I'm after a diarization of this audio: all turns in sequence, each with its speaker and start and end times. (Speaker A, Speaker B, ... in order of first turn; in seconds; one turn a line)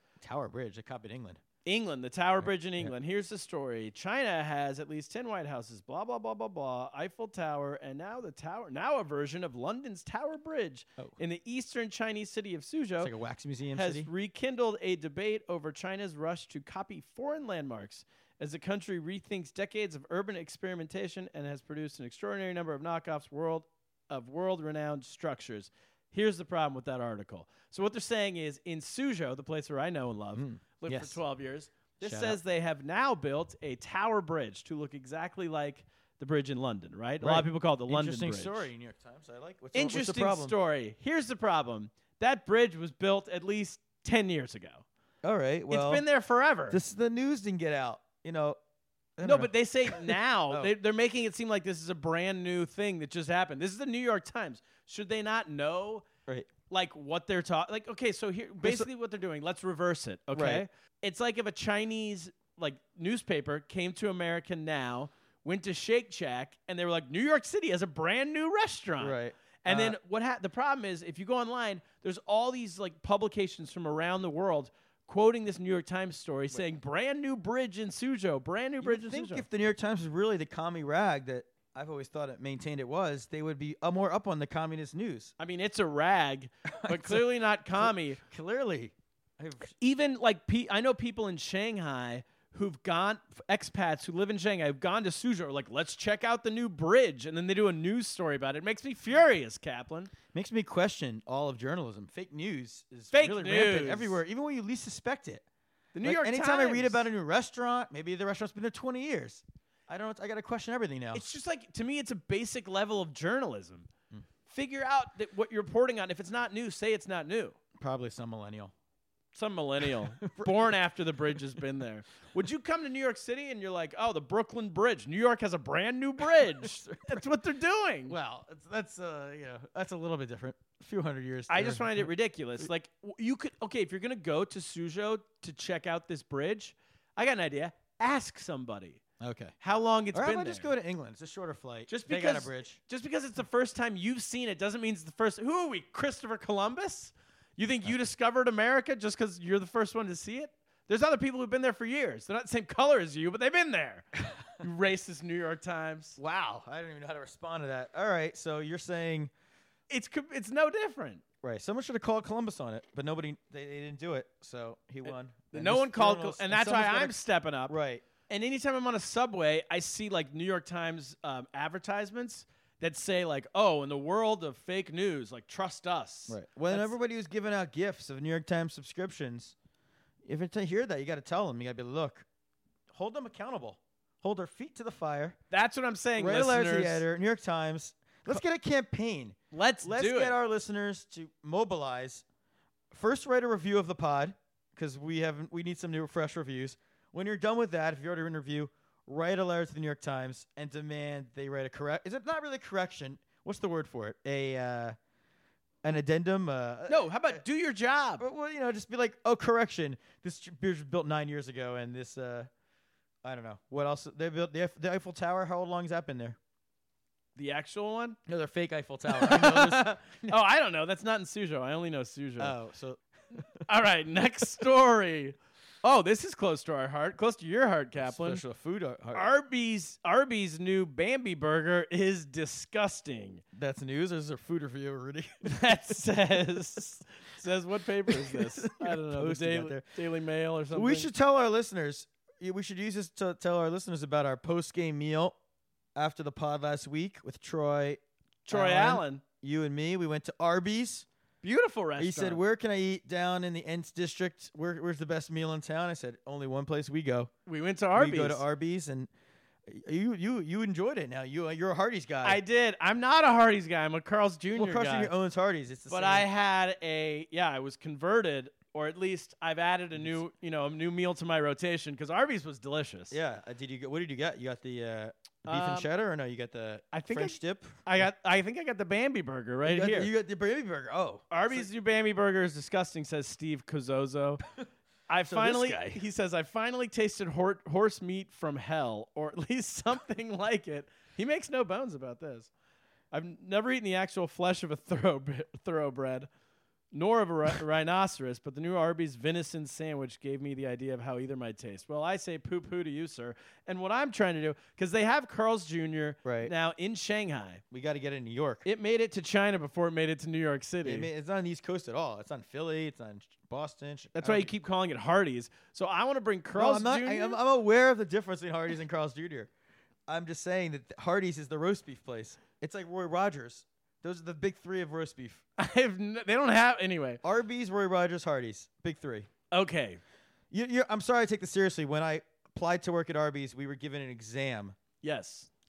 Speaker A: 0.2-1.4
Speaker B: 1.6-13.1
Speaker A: 2.4-2.9
Speaker A: 13.0-14.1
Speaker B: 13.7-38.7
Speaker A: 30.3-31.2
Speaker A: 32.0-32.4
Speaker A: 37.2-40.5
Speaker B: 39.7-44.8
Speaker A: 45.2-46.0
Speaker B: 45.7-46.8
Speaker A: 46.7-48.6
Speaker A: 49.2-50.7
Speaker B: 49.2-56.1
Speaker B: 56.7-79.4
Speaker A: 58.6-58.9
Speaker A: 60.3-60.6
Speaker A: 69.0-70.0
Speaker A: 78.8-85.3
Speaker B: 85.4-88.2
Speaker A: 86.8-89.7
Speaker B: 89.8-100.1
Speaker A: 100.3-105.4
Speaker B: 103.1-104.2
Speaker B: 105.9-107.0
Speaker A: 106.0-111.2
Speaker B: 111.1-113.9
Speaker B: 114.5-117.5
Speaker A: 117.8-118.7
Speaker B: 119.3-128.1
Speaker A: 120.0-120.7
Speaker A: 126.6-127.2
Speaker A: 128.1-132.1
Speaker B: 131.5-139.0
Speaker A: 139.2-139.5
Speaker B: 139.6-140.7
Speaker A: 140.1-142.8
Speaker B: 141.9-156.2
Speaker A: 156.2-159.3
Speaker B: 159.9-161.2
Speaker A: 161.4-168.0
Speaker B: 165.0-167.8
Speaker B: 168.3-176.9
Speaker A: 176.3-179.5
Speaker A: 180.2-182.2
Speaker A: 182.9-185.4
Speaker B: 185.5-187.0
Speaker A: 186.2-192.2
Speaker B: 189.5-190.4
Speaker A: 192.9-204.9
Speaker A: 205.8-207.4
Speaker B: 206.9-208.2
Speaker A: 208.2-212.5
Speaker A: 213.2-216.4
Speaker B: 217.3-218.2
Speaker A: 218.3-220.3
Speaker B: 219.1-222.6
Speaker A: 222.4-223.6
Speaker B: 223.7-228.4
Speaker A: 228.0-229.3
Speaker B: 229.1-233.4
Speaker A: 233.5-236.0
Speaker B: 235.4-241.1
Speaker A: 238.1-239.9
Speaker A: 240.7-245.3
Speaker A: 245.9-251.1
Speaker B: 248.4-249.2
Speaker B: 251.4-252.4
Speaker A: 252.0-257.3
Speaker B: 257.4-258.4
Speaker A: 257.9-259.1
Speaker A: 259.7-262.4
Speaker B: 262.2-265.1
Speaker A: 264.5-266.3
Speaker B: 265.9-273.2
Speaker A: 273.1-277.8
Speaker B: 275.5-275.9
Speaker B: 276.9-280.1
Speaker A: 279.6-281.7
Speaker B: 281.3-284.4
Speaker B: 285.1-292.5
Speaker A: 285.2-286.0
Speaker B: 293.1-296.3
Speaker B: 296.9-307.6
Speaker A: 306.2-306.5
Speaker A: 307.7-308.6
Speaker B: 308.6-311.1
Speaker A: 310.8-314.5
Speaker B: 314.1-317.4
Speaker A: 316.5-319.5
Speaker A: 320.1-325.4
Speaker B: 325.6-327.2
Speaker A: 327.2-329.3
Speaker B: 329.5-330.0
Speaker A: 330.5-334.8
Speaker B: 335.0-335.5